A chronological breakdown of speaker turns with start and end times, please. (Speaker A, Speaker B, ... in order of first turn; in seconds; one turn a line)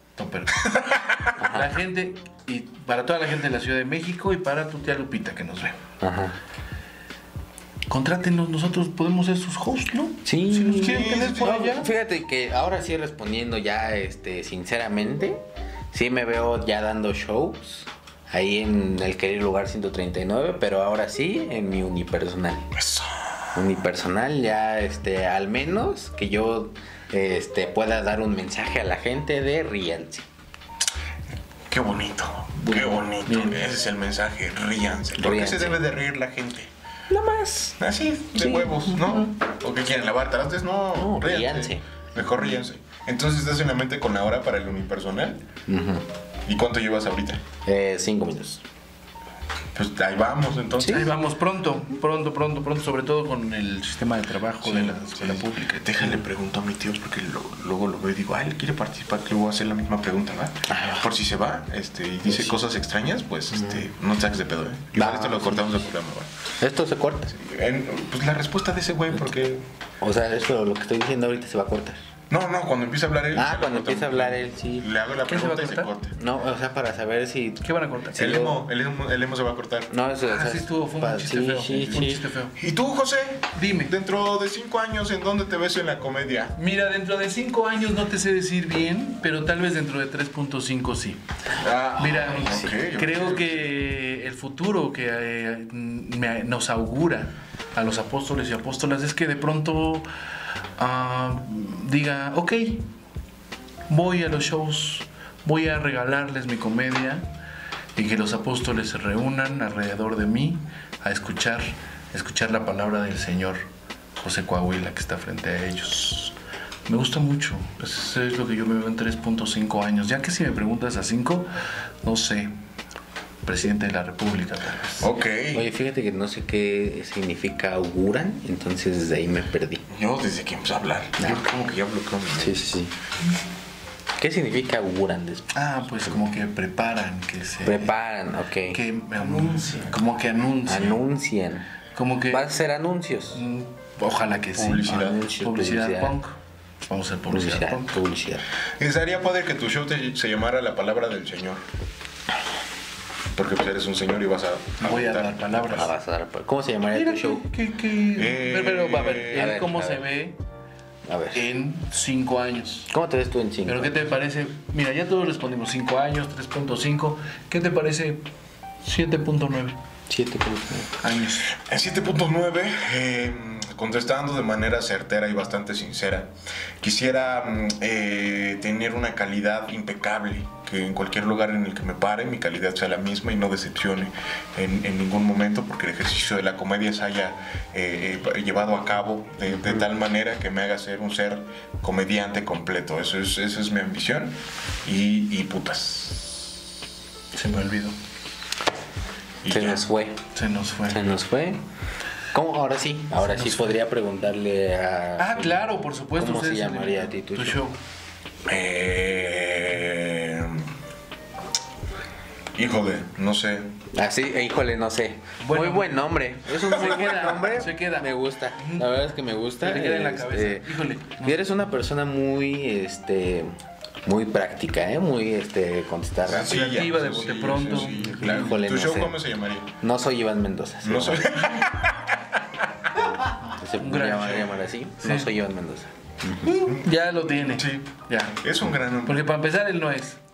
Speaker A: 0.2-0.7
Speaker B: 0.6-1.4
Speaker C: 1.4-1.8
Speaker A: 1.5-5.8
Speaker C: 6.0-6.4
Speaker A: 7.9-11.9
Speaker C: 10.2-22.7
Speaker B: 10.8-11.6
Speaker B: 22.7-23.5
Speaker C: 23.6-30.3
Speaker B: 31.7-36.7
Speaker C: 32.6-33.0
Speaker A: 33.2-33.6
Speaker C: 35.2-35.8
Speaker C: 37.1-37.8
Speaker B: 37.8-45.5
Speaker C: 38.4-39.3
Speaker C: 41.0-42.6
Speaker C: 45.7-46.1
Speaker B: 46.5-47.4
Speaker C: 47.6-48.6
Speaker B: 49.8-51.1
Speaker C: 50.8-51.1
Speaker A: 50.9-56.2
Speaker B: 54.6-66.3
Speaker C: 60.7-61.1
Speaker C: 62.3-62.6
Speaker C: 63.6-63.8
Speaker C: 64.9-65.8
Speaker C: 66.6-67.3
Speaker B: 67.3-69.6
Speaker C: 70.0-72.0
Speaker B: 72.3-76.1
Speaker C: 73.3-74.9
Speaker A: 75.3-75.9
Speaker C: 76.2-78.6
Speaker A: 77.6-78.4
Speaker B: 78.2-79.9
Speaker C: 79.9-82.3
Speaker A: 80.3-82.5
Speaker B: 82.6-86.6
Speaker A: 83.5-83.9
Speaker A: 86.6-91.2
Speaker B: 91.6-93.7
Speaker A: 92.0-100.1
Speaker A: 100.8-102.9
Speaker A: 103.9-107.3
Speaker A: 108.0-113.6
Speaker A: 114.2-116.3
Speaker A: 116.9-121.5
Speaker A: 122.0-122.5
Speaker A: 123.5-125.1
Speaker B: 125.0-125.7
Speaker C: 125.5-129.9
Speaker B: 129.9-132.7
Speaker C: 131.2-131.4
Speaker C: 132.4-132.9
Speaker C: 134.2-135.5
Speaker A: 135.5-137.9
Speaker C: 137.6-138.8
Speaker A: 138.7-141.0
Speaker C: 140.7-141.7
Speaker A: 141.9-142.5
Speaker C: 142.3-143.4
Speaker A: 143.3-146.4
Speaker B: 144.6-145.2
Speaker C: 144.8-146.2
Speaker A: 146.9-148.0
Speaker C: 147.3-148.4
Speaker B: 148.8-151.6
Speaker B: 153.3-155.9
Speaker A: 154.8-155.9
Speaker C: 155.7-157.4
Speaker A: 156.9-160.4
Speaker B: 158.2-159.5
Speaker C: 159.3-160.1
Speaker C: 161.1-161.4
Speaker A: 161.3-162.9
Speaker C: 162.9-163.9
Speaker A: 163.7-168.3
Speaker A: 168.8-169.8
Speaker C: 170.1-170.9
Speaker A: 171.0-171.5
Speaker B: 171.5-196.6
Speaker A: 197.3-198.0
Speaker B: 199.4-199.8
Speaker C: 199.5-200.2
Speaker A: 200.3-201.1
Speaker C: 200.9-201.6
Speaker C: 202.3-205.6
Speaker A: 203.2-203.7
Speaker A: 205.2-207.8
Speaker C: 206.2-207.6
Speaker B: 208.5-210.7
Speaker B: 212.6-213.7
Speaker C: 213.9-223.5
Speaker A: 215.4-219.0
Speaker B: 216.7-217.2
Speaker A: 219.6-221.4
Speaker C: 224.1-226.7
Speaker B: 226.2-229.7
Speaker A: 226.5-228.4
Speaker C: 228.0-229.2
Speaker C: 229.8-231.6
Speaker B: 230.8-232.7
Speaker C: 233.5-236.5
Speaker A: 233.8-235.3
Speaker A: 236.4-238.4
Speaker B: 237.6-239.3
Speaker A: 239.1-240.2